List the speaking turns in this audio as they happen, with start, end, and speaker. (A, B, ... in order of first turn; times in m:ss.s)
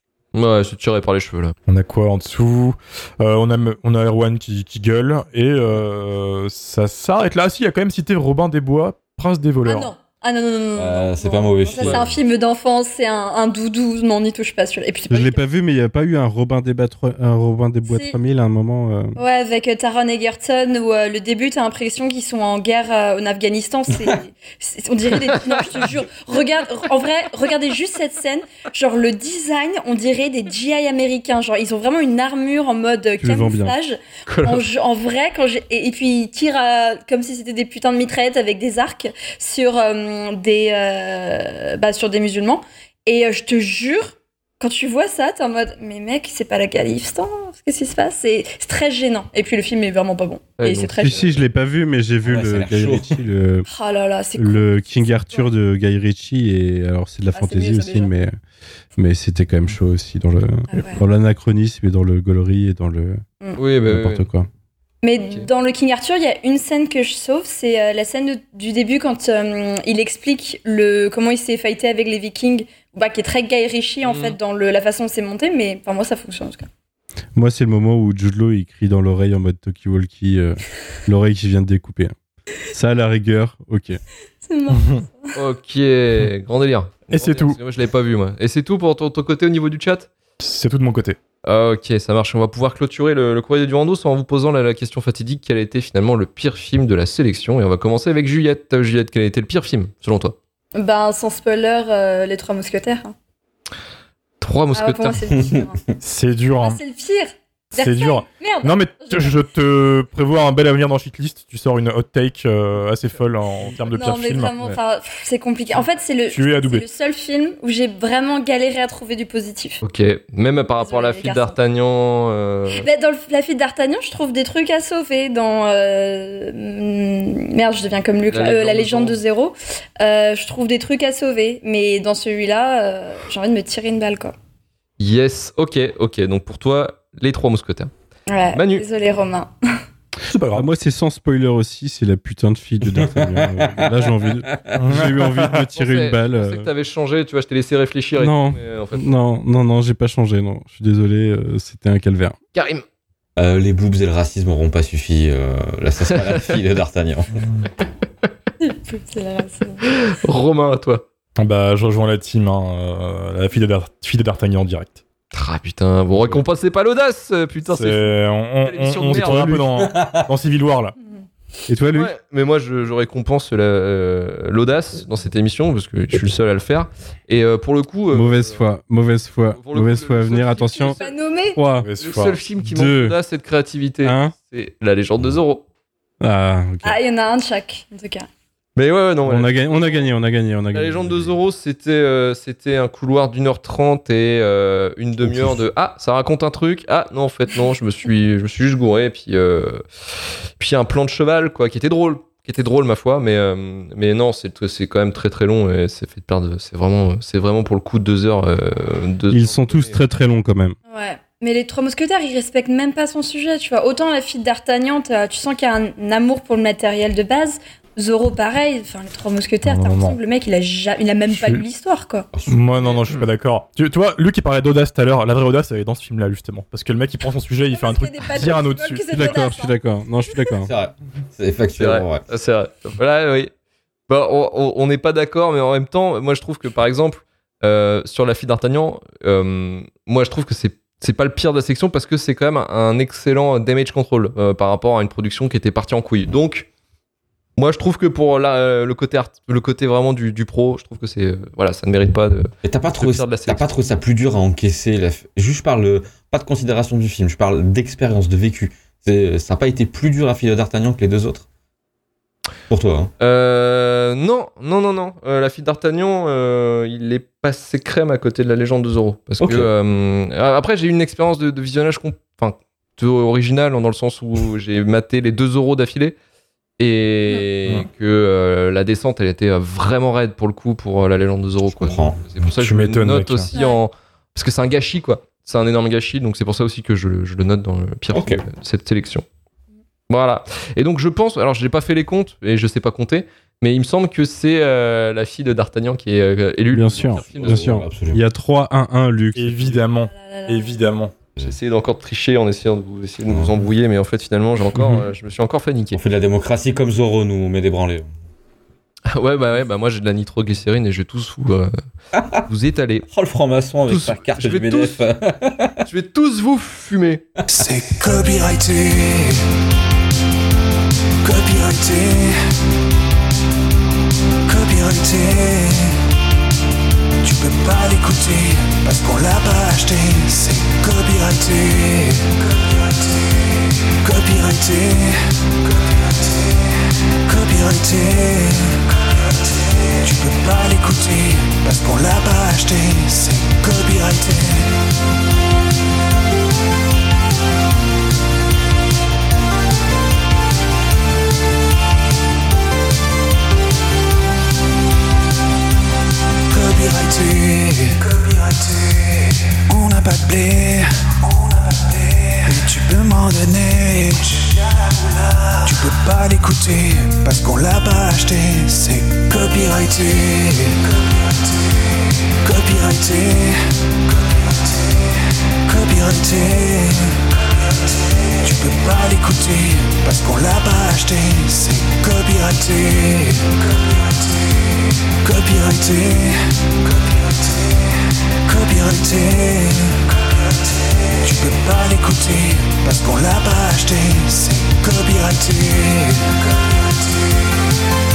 0:00.3-0:01.6 A
0:01.7-0:09.9 B
0:09.6-0:15.4 C
0:10.8-0:12.2 D
0:11.8-0:12.1 A
0:15.1-0:19.2 E
0:17.9-0:18.2 C
0:19.2-0:51.3 C
0:33.2-0:33.8 E
0:34.3-0:34.6 A
0:50.6-0:51.4 A
0:51.0-0:53.7 E
0:52.2-0:53.2 D
0:53.7-0:55.5 C
0:54.4-0:58.4 E
0:57.3-0:58.1 C
0:59.0-1:03.2 E
1:00.7-1:01.0 C
1:03.6-1:04.3 A
1:03.9-1:04.5 E
1:05.0-1:16.7 C
1:14.0-1:14.4 A
1:17.4-1:22.2 E
1:22.7-1:24.0 E
1:24.4-1:25.3 C
1:25.4-1:30.1 A
1:27.1-1:27.6 B
1:30.4-1:31.2 B
1:31.4-1:40.4 A
1:40.8-1:43.2 C
1:44.4-1:45.2 A
1:44.7-1:45.8 C
1:45.3-1:45.7 D
1:46.0-1:46.8 B
1:46.6-1:49.4 C
1:47.7-1:54.5 B
1:53.9-1:59.8 C
1:56.3-1:56.8 B
1:59.8-2:02.9 A
2:00.8-2:01.6 C
2:02.7-2:14.4 C
2:08.3-2:09.2 A
2:15.0-2:17.9 A
2:18.3-2:19.5 C
2:18.5-2:18.8 A
2:20.2-2:20.7 B
2:20.5-2:26.7 E
2:22.8-2:24.8 D
2:24.8-2:25.7 B
2:25.7-2:29.0 A
2:28.2-2:32.4 E
2:32.6-2:32.8 A
2:33.4-2:37.3 D
2:36.1-2:36.6 A
2:38.6-2:39.9 C
2:39.8-2:41.0 A
2:41.4-2:45.0 B
2:45.3-2:49.4 A
2:47.7-2:51.0 B
2:49.1-2:49.6 E
2:49.5-2:50.4 D
2:51.7-2:52.1 E
2:51.9-2:58.7 A
2:58.1-3:01.0 E
2:59.5-3:01.2 A
3:00.9-3:01.6 C
3:01.6-3:01.9 E
3:01.8-3:02.4 B
3:02.0-3:05.6 A
3:02.6-3:03.2 E
3:04.0-3:04.3 E
3:06.2-3:07.0 E
3:06.8-3:08.3 C
3:08.8-3:10.1 A
3:09.2-3:11.4 E
3:10.7-3:19.8 A
3:15.2-3:15.6 D
3:20.6-3:30.0 A
3:29.3-3:30.8 E
3:30.9-3:42.3 C
3:39.6-3:40.2 B
3:41.3-3:41.6 B
3:42.3-3:42.9 D
3:42.5-3:49.0 B
3:42.8-3:43.3 A
3:47.7-3:49.8 C
3:49.1-3:50.7 E
3:50.6-3:52.2 D
3:51.8-3:53.5 A
3:54.1-4:06.7 A
4:07.6-4:13.7 A
4:12.6-4:21.4 D
4:22.7-4:23.1 D
4:23.2-4:36.2 A
4:29.4-4:29.7 D
4:36.8-4:49.3 A
4:41.6-4:42.2 D
4:42.6-4:43.5 B
4:43.5-4:43.8 C
4:48.1-4:48.4 D
4:50.1-4:57.8 A
4:56.7-4:59.8 E
4:57.1-4:58.2 D
4:59.4-5:01.2 B
5:00.0-5:00.8 C
5:01.4-5:06.0 A
5:03.3-5:03.6 D
5:04.8-5:05.1 B
5:05.9-5:08.1 D
5:09.1-5:11.7 A
5:12.1-5:12.4 D
5:12.5-5:13.1 A
5:13.1-5:15.8 D
5:13.9-5:15.0 A
5:15.9-5:17.2 A
5:17.5-5:19.4 F
5:21.2-5:22.4 F
5:24.5-5:26.0 F
5:27.2-5:44.8 F
5:56.5-6:11.5 F
6:12.4-6:24.6 F
6:25.2-6:36.8 F